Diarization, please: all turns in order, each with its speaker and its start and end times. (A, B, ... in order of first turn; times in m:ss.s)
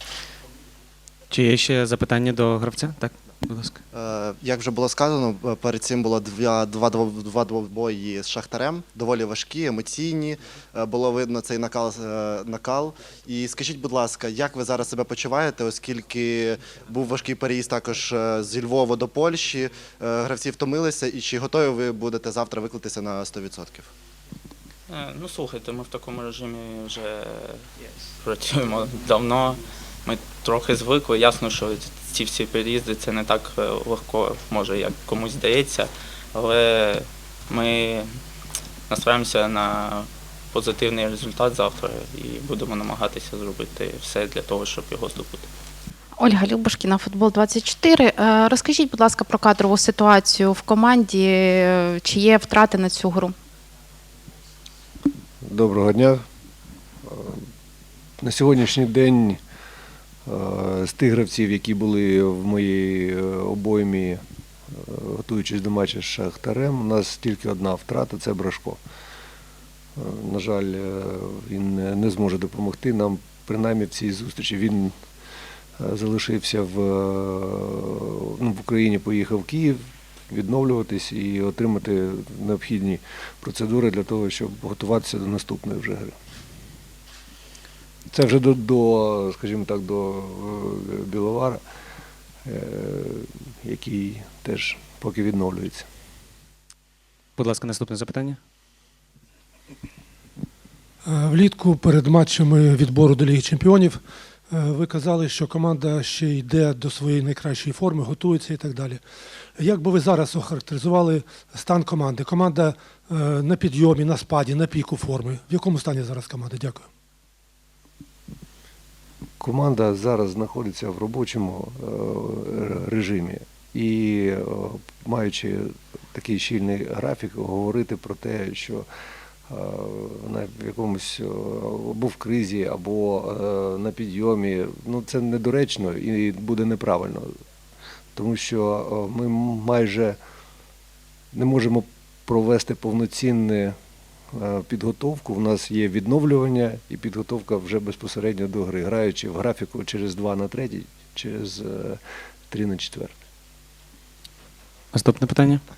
0:01.3-0:03.8 A
0:03.9-0:23.9 B
0:24.9-0:27.6 C
0:28.2-0:38.1 C
0:38.9-0:45.4 C
0:46.2-0:53.3 D
0:55.4-0:56.2 E
0:57.0-0:57.4 E
0:58.2-0:59.4 E
1:00.2-1:08.8 E
1:10.0-1:14.9 E
1:15.8-1:26.1 E
1:28.1-1:31.6 E
1:32.4-1:35.9 E
1:37.4-1:38.4 A
1:41.0-1:49.0 F
1:49.6-1:56.9 F
1:59.4-2:08.8 E
2:09.5-2:17.3 E
2:18.1-2:20.2 E
2:21.3-2:23.8 E
2:24.3-2:33.1 E
2:34.9-2:35.6 A